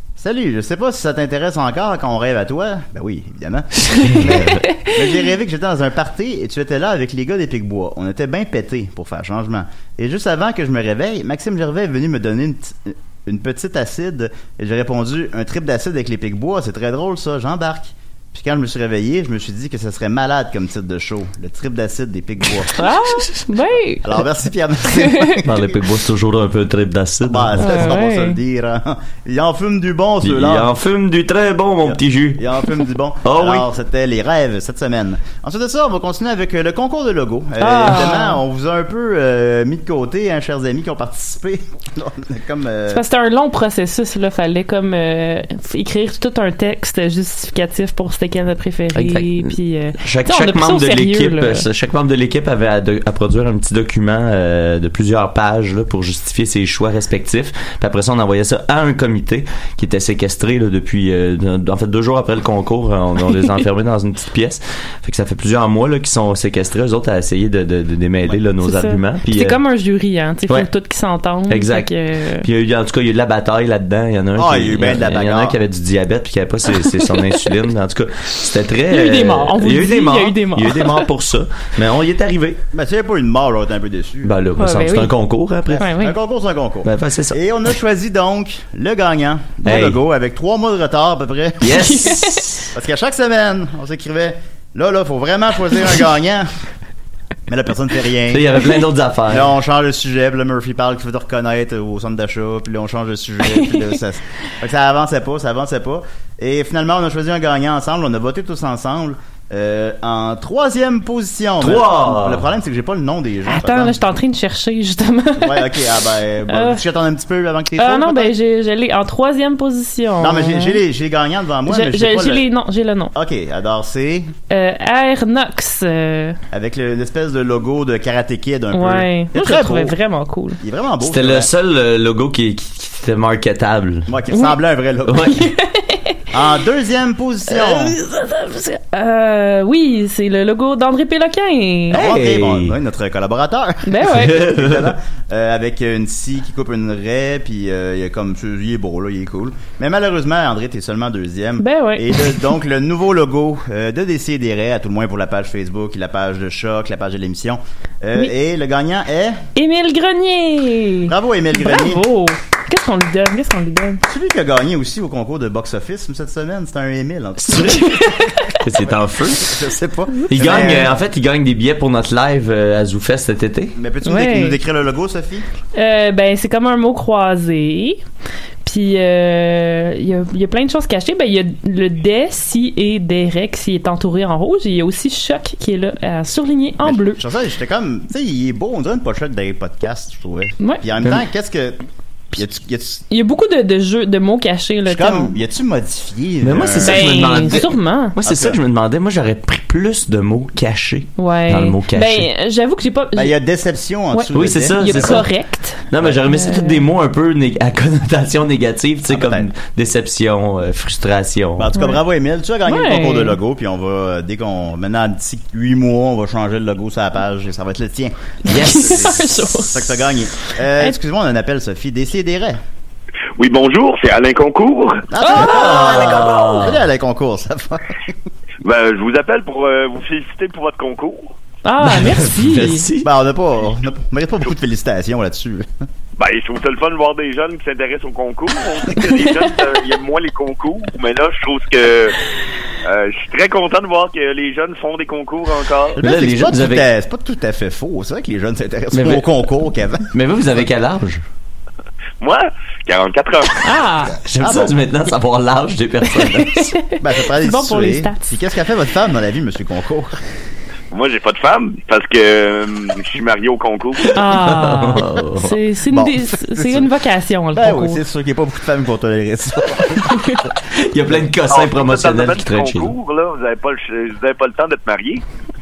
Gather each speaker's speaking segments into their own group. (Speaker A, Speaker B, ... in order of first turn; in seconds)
Speaker A: 0.2-22.7, 24.0-25.7, 27.2-30.7, 31.8-43.0, 74.3-75.6, 82.7-84.3, 85.7-91.9, 92.7-96.5, 97.5-98.5, 99.3-114.0, 115.4-118.3, 120.2-122.5, 123.1-124.3, 126.5-130.0, 130.6-131.5, 134.1-135.5, 136.3-138.0, 141.9-159.4, 161.1-162.0, 164.1-170.9, 173.7-175.4, 186.8-191.8, 192.3-193.0, 194.8-197.6, 198.2-198.6, 203.1-205.2, 209.1-209.5, 211.6-222.6, 225.1-228.1, 233.0-235.8, 246.0-250.1, 254.4-254.7, 257.0-260.2, 265.9-266.9, 267.5-270.4
Speaker B: 4.0-4.6, 25.4-27.9, 30.2-32.4, 33.2-33.7, 48.9-69.6, 71.5-71.9, 72.4-82.6, 84.2-85.8, 86.8-87.4, 89.6-90.0, 91.6-92.6, 98.3-99.5, 111.6-112.4, 131.0-134.1, 135.1-135.4, 141.9-142.7, 144.1-144.9, 167.5-167.8, 168.6-169.6, 170.3-173.8, 196.4-202.3, 204.3-205.3, 205.9-211.7, 218.5-219.2, 225.3-226.8, 231.8-233.1, 246.0-246.9, 248.9-249.2, 250.1-251.2, 254.2-256.7, 264.2-265.6, 270.6-272.9
Speaker C: 22.8-24.2, 25.0-25.4, 27.6-28.4, 37.6-38.4, 42.9-51.6, 68.6-72.5, 78.9-81.0, 84.6-85.1, 85.8-86.2, 91.7-92.7, 113.5-115.7, 116.5-116.8, 117.8-120.8, 121.7-123.1, 124.5-126.4, 128.7-130.6, 134.3-134.6, 135.3-136.2, 137.7-142.0, 143.8-144.4, 151.6-152.4, 159.6-164.0, 167.6-168.5, 170.2-170.8, 174.0-174.6, 175.7-178.0, 178.6-187.2, 193.1-195.3, 196.8-198.2, 201.2-203.3, 204.1-206.8, 212.7-213.4, 218.5-221.0, 225.2-226.0, 231.6-232.9, 253.6-254.2, 256.2-258.2, 264.1-268.0, 270.0-270.4
Speaker D: 223.4-225.1, 228.6-231.3, 236.2-242.2, 242.8-246.0, 252.2-253.7, 260.9-264.1, 271.5-275.2